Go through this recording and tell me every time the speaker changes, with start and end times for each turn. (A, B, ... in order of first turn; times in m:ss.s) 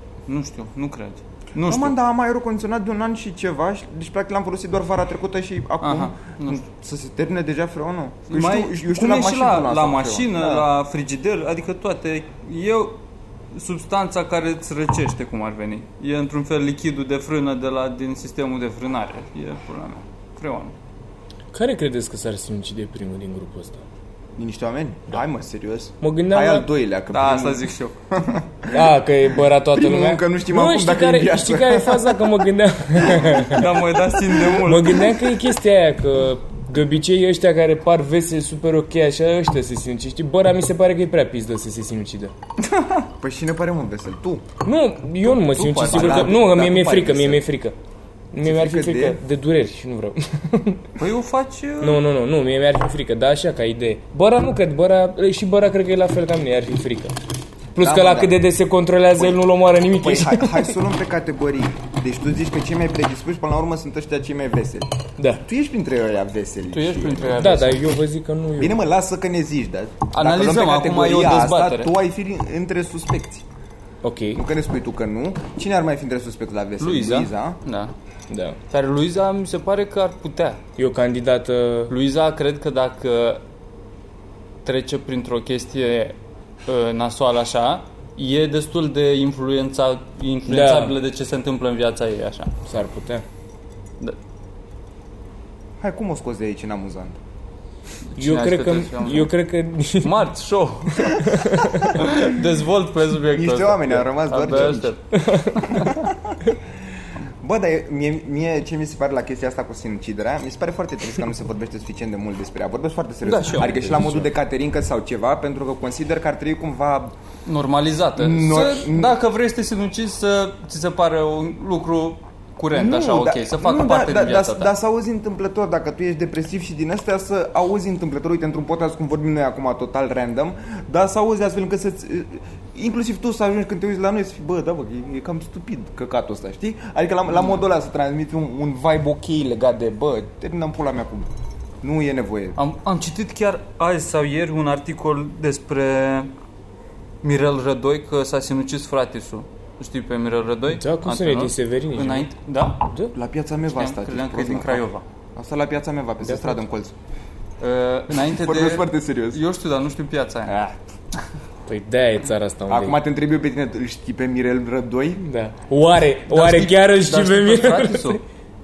0:00.3-0:02.0 A
0:01.6-0:10.6 B
0:05.8-0:06.6 A
0:08.3-0:13.0 A
0:13.5-0:20.7 A
0:21.5-0:23.8 C
0:24.4-0:32.3 B
0:26.0-0:26.7 C
0:27.1-0:27.9 A
0:28.7-0:33.6 C
0:33.2-0:35.3 A
0:34.6-0:42.3 C
0:43.2-0:44.4 B
0:44.6-0:47.7 C
0:45.2-0:46.6 A
0:45.8-0:47.4 B
0:48.3-0:50.8 C
0:48.4-0:49.2 B
0:51.0-0:52.0 A
0:51.8-0:57.1 C
0:57.7-1:00.7 C
0:57.8-0:58.4 B
0:59.2-1:07.5 B
1:05.2-1:05.4 C
1:06.7-1:07.9 A
1:07.4-1:08.8 C
1:08.6-1:13.4 B
1:10.1-1:11.9 A
1:14.0-1:14.4 C
1:14.3-1:17.6 B
1:16.8-1:17.9 A
1:18.3-1:18.6 C
1:18.7-1:20.6 A
1:20.8-1:21.9 C
1:21.9-1:23.4 A
1:24.6-1:32.5 A
1:30.5-1:30.9 C
1:32.6-1:33.2 C
1:35.8-1:37.2 B
1:38.1-1:39.3 A
1:38.2-1:40.2 C
1:40.0-1:41.3 A
1:41.0-1:42.0 C
1:41.9-1:45.0 A
1:43.3-1:44.9 B
1:45.1-1:45.9 C
1:45.5-1:45.9 A
1:45.8-1:46.3 B
1:47.4-1:57.1 B
1:53.2-1:54.2 A
1:57.4-2:04.7 A
1:58.2-1:59.2 B
2:02.7-2:21.3 B
2:17.3-2:17.6 A
2:21.8-2:22.6 B
2:22.6-2:26.3 A
2:27.2-2:32.8 A
2:30.7-2:32.3 C
2:33.1-2:34.8 B
2:33.7-2:35.0 A
2:35.4-2:36.9 B
2:36.2-2:36.6 C
2:37.6-2:40.7 A
2:38.2-2:39.4 B
2:41.7-2:43.0 C
2:42.7-2:45.2 B
2:45.2-2:48.2 C
2:46.3-2:48.2 A